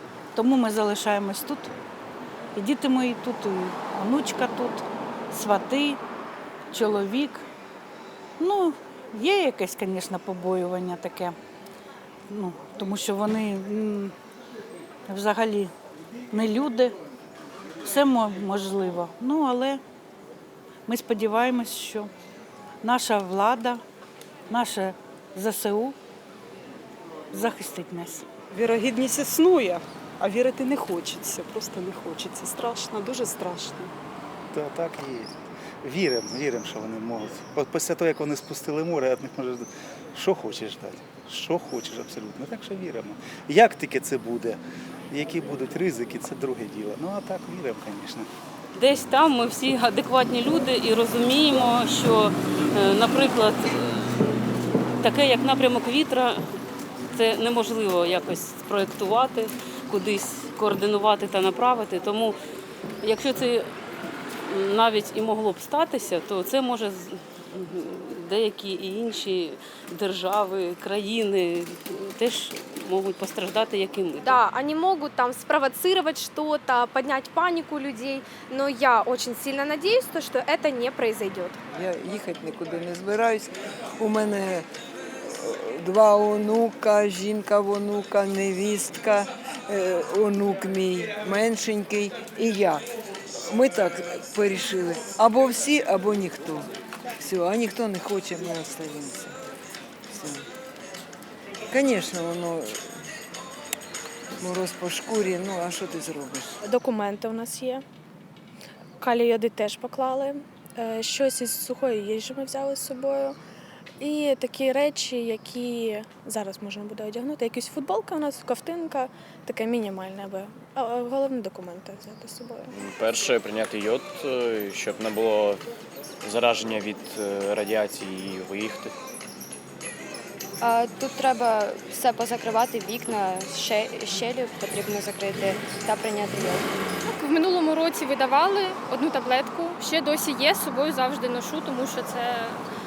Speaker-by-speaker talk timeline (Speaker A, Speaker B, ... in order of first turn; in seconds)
Speaker A: 0.3-1.7, 2.5-6.0, 6.7-7.4, 8.4-11.3, 12.3-14.1, 15.1-15.7, 16.3-16.9, 17.8-19.8, 20.9-22.1, 22.8-23.8, 24.5-25.9, 27.3-28.2
Speaker B: 28.5-33.9
Speaker C: 34.5-35.3, 35.8-44.6, 45.1-48.2
Speaker D: 48.7-54.0, 55.0-56.4, 57.1-62.3, 63.0-63.7, 64.5-74.4
Speaker E: 74.2-81.6
Speaker F: 81.7-84.7, 85.2-92.8, 93.5-99.4, 100.1-100.5, 101.7-102.9, 104.4-106.6
Speaker G: 106.6-107.8, 109.0-113.4, 114.0-122.7
Speaker H: 122.7-125.6, 126.2-128.9
Speaker I: 130.6-136.8
Speaker J: 137.1-142.6